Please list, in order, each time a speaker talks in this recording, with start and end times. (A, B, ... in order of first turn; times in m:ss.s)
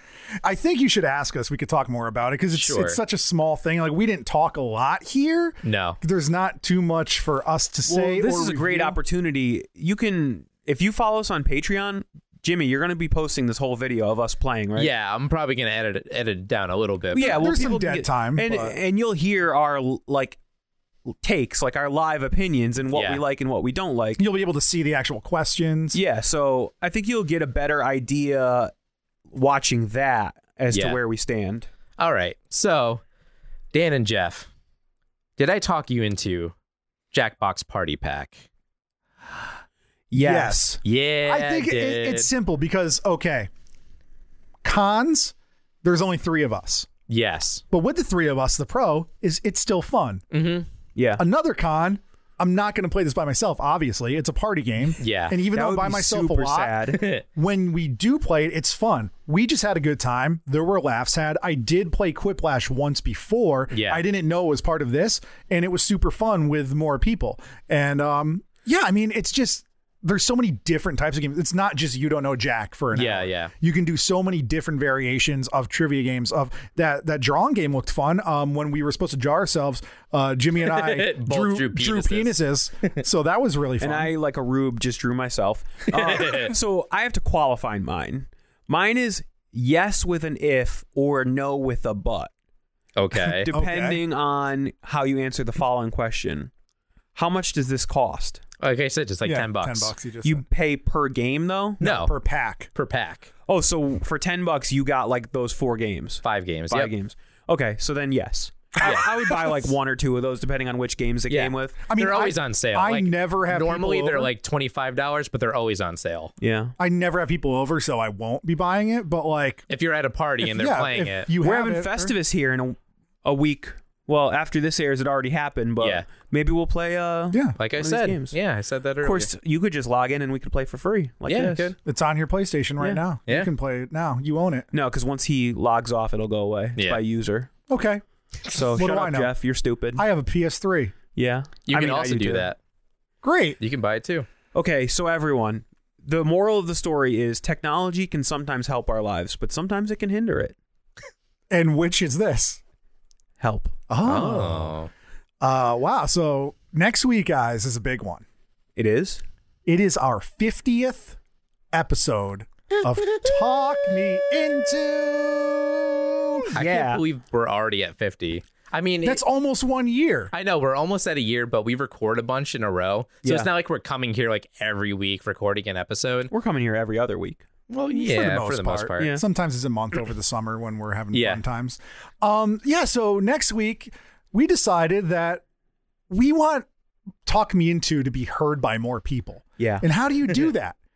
0:00.4-0:09.0 A
0:02.5-0:03.0 B
0:05.6-0:06.0 B
0:07.9-0:14.9 C
0:14.8-0:17.5 B
0:17.1-0:20.4 C
0:17.2-0:18.8 A
0:21.1-0:24.2 C
0:22.9-0:23.2 B
0:24.2-0:26.0 A
0:25.9-0:28.7 C
0:29.3-0:31.7 C
0:30.7-0:31.0 B
0:32.0-0:33.0 B
0:33.7-0:34.5 B
0:35.4-0:36.5 B
0:37.1-0:38.4 B
0:40.1-0:40.8 C
0:40.1-0:43.5 A
0:40.8-0:42.3 B
0:44.6-0:46.9 A
0:47.1-0:47.6 B
0:47.7-0:50.2 A
0:50.3-0:50.7 B
0:50.9-0:51.2 C
0:51.2-1:24.1 A
0:55.0-0:55.4 B
0:55.5-0:57.0 C
0:56.9-0:57.2 B
1:03.7-1:04.0 B
1:12.9-1:13.5 B
1:20.6-1:22.4 B
1:23.8-1:32.3 C
1:26.0-1:26.5 B
1:33.0-1:33.5 B
1:33.2-1:36.5 C
1:33.5-1:34.0 A
1:37.1-1:38.4 C
1:38.6-1:39.9 B
1:39.2-1:40.4 A
1:40.2-1:41.8 C
1:41.8-1:42.7 A
1:41.8-1:42.1 B
1:42.7-1:43.3 B
1:43.5-1:51.8 C
1:46.2-1:46.9 B
1:48.8-1:49.6 A
1:51.3-1:56.3 B
1:51.9-1:54.3 A
1:56.4-1:56.7 C
1:56.8-1:59.6 A
1:59.7-2:01.3 B
2:00.4-2:02.1 A
2:01.4-2:08.4 C
2:05.8-2:06.1 B
2:07.3-2:07.6 A
2:07.6-2:09.3 B
2:09.0-2:11.7 C
2:11.2-2:11.8 B
2:11.8-2:14.7 A
2:14.7-2:17.5 C
2:17.7-2:18.0 A
2:18.5-2:20.0 C
2:18.6-2:19.3 A
2:20.0-2:20.9 A
2:21.1-2:22.5 C
2:21.7-2:22.6 B
2:23.2-2:23.6 A
2:23.6-2:24.3 B
2:24.5-2:30.6 C
2:31.5-2:32.6 A
2:33.4-2:33.7 C
2:33.9-2:34.8 A
2:34.0-2:34.9 B
2:35.4-2:38.2 A
2:38.8-2:39.2 C
2:39.6-2:41.2 A
2:41.7-2:46.5 A
2:46.5-2:47.0 C
2:46.5-2:49.2 B
2:49.0-2:50.3 A
2:50.3-2:56.3 B
2:53.2-2:53.5 C
2:56.3-2:57.4 C
2:57.7-2:59.1 B
2:57.9-3:05.4 A
2:59.0-2:59.2 C
3:01.1-3:01.4 B
3:06.1-3:06.7 A
3:07.2-3:10.8 A
3:09.6-3:10.4 C